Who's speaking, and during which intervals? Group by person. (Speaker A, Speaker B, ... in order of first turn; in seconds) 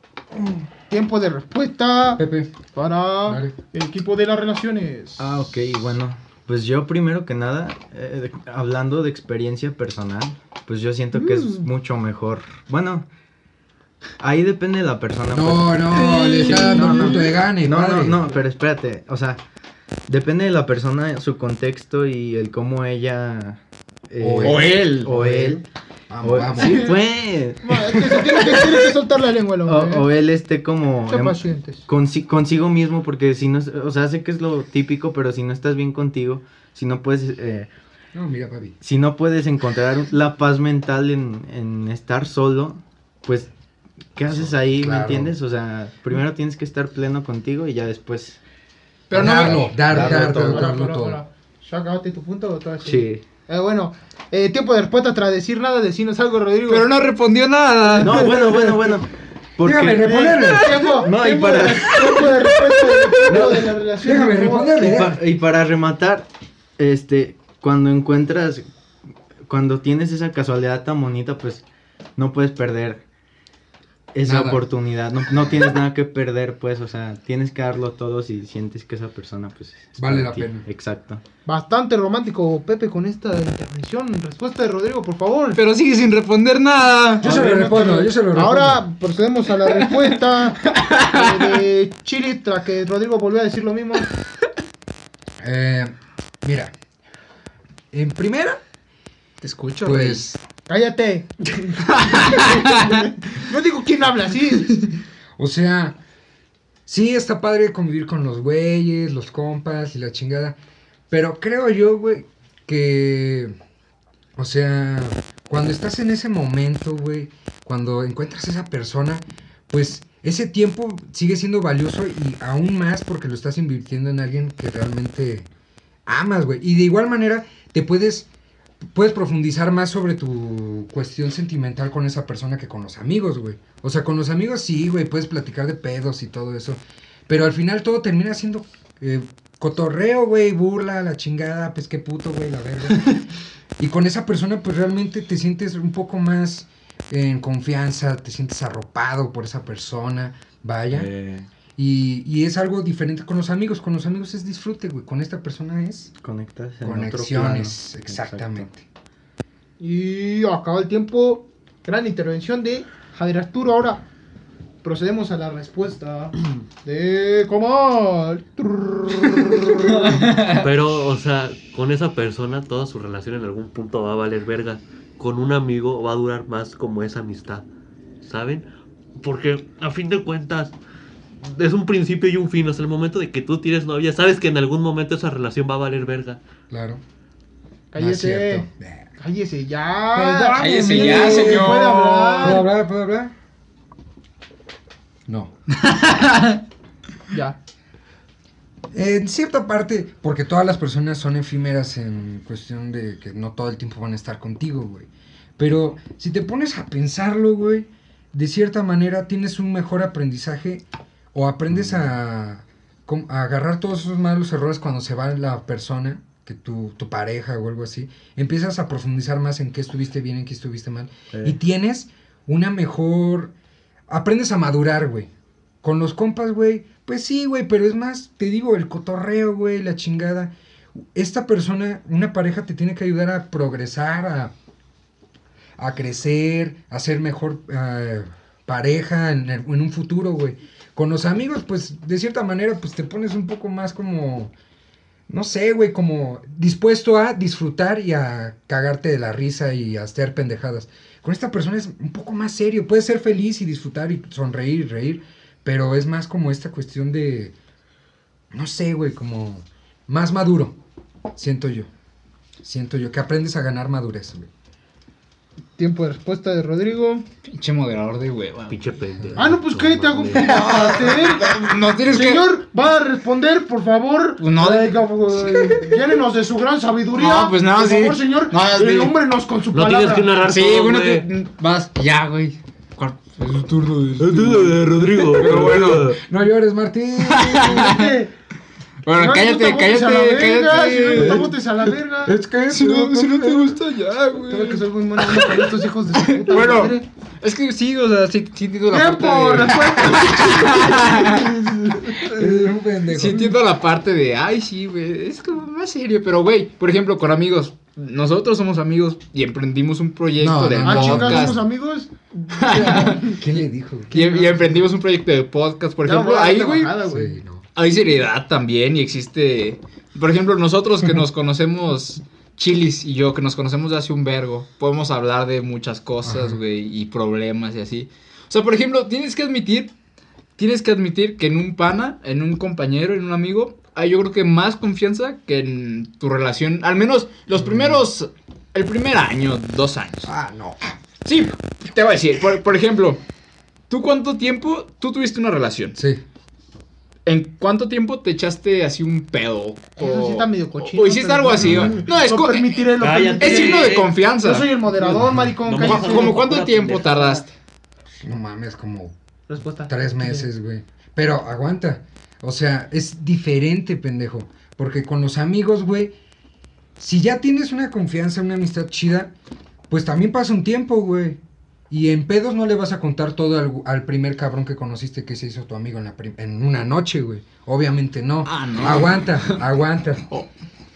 Speaker A: 0.3-0.7, 2.2-2.5, 3.3-3.5, 15.3-18.2, 24.2-27.0, 38.1-38.8, 44.3-45.4, 49.1-51.2, 59.6-60.8, 63.3-65.2, 74.2-74.6, 80.0-80.7, 87.2-88.8, 95.4-96.7, 97.9-98.6, 99.8-100.4, 105.4-106.0, 106.9-110.6, 111.1-113.5, 114.4-125.5, 126.1-128.3, 128.9-143.2, 143.8-151.1, 151.8-156.1, 156.8-158.8, 186.7-187.0, 188.0-189.1, 190.1-191.8, 192.4-193.3, 195.3-195.5, 198.9-223.5, 224.1-225.3, 225.8-230.5, 231.1-234.5, 235.8-244.5, 245.3-257.6, 258.5-260.8, 261.4-261.9, 262.6-264.5, 285.4-287.9, 291.1-291.5, 292.2-293.8, 302.2-303.5, 310.4-311.6, 312.7-314.5, 317.1-317.7, 326.2-326.6, 337.6-338.0, 340.3-341.0, 345.9-346.2, 351.6-352.0, 358.2-359.1, 359.9-366.1, 367.0-369.3, 369.9-371.4, 371.9-380.3
Speaker B: 0.9-2.2, 2.7-5.2, 27.6-30.1, 31.1-31.9, 49.9-56.9, 57.9-58.8, 60.0-64.9, 81.5-85.6, 87.2-94.1, 100.7-104.8, 159.8-164.0, 164.8-170.3, 187.9-188.7, 189.2-192.7, 197.3-197.6, 265.8-267.3, 269.4-280.3, 287.6-288.3, 289.1-292.4, 294.5-297.1, 298.9-302.3, 310.8-313.4, 314.2-314.8, 316.0-317.4, 350.0-356.4, 359.5-360.5
Speaker C: 5.2-13.1, 14.2-19.4, 20.1-25.6, 26.2-28.6, 29.7-37.7, 38.8-43.5, 44.1-48.4, 49.1-50.7, 52.8-53.2, 58.0-60.4, 60.9-62.3, 64.6-68.7, 69.5-71.6, 72.2-73.0, 74.1-81.2, 150.9-151.5, 156.2-158.7, 211.7-212.0
Speaker D: 16.2-17.2, 24.4-25.1, 28.3-28.8, 49.1-49.9, 56.7-58.4, 62.0-63.3, 85.5-87.5, 89.8-90.1, 90.7-91.6, 99.4-100.2, 101.9-103.0, 169.8-170.7, 190.6-192.6, 195.7-196.6, 267.5-268.8, 270.3-272.5, 274.4-276.0, 277.2-279.2, 280.4-284.6, 285.3-286.2, 287.2-288.2, 289.1-291.6, 292.7-301.5, 303.1-311.6, 312.5-313.3, 314.1-317.0, 317.8-329.9, 330.6-340.3, 341.2-343.2, 343.9-345.9, 347.3-354.7, 355.8-357.5, 378.4-379.6
Speaker E: 170.3-177.7, 178.2-178.7, 179.2-180.8, 181.4-186.4, 268.7-270.9, 279.7-281.3, 284.2-286.2, 353.0-354.2, 355.6-357.4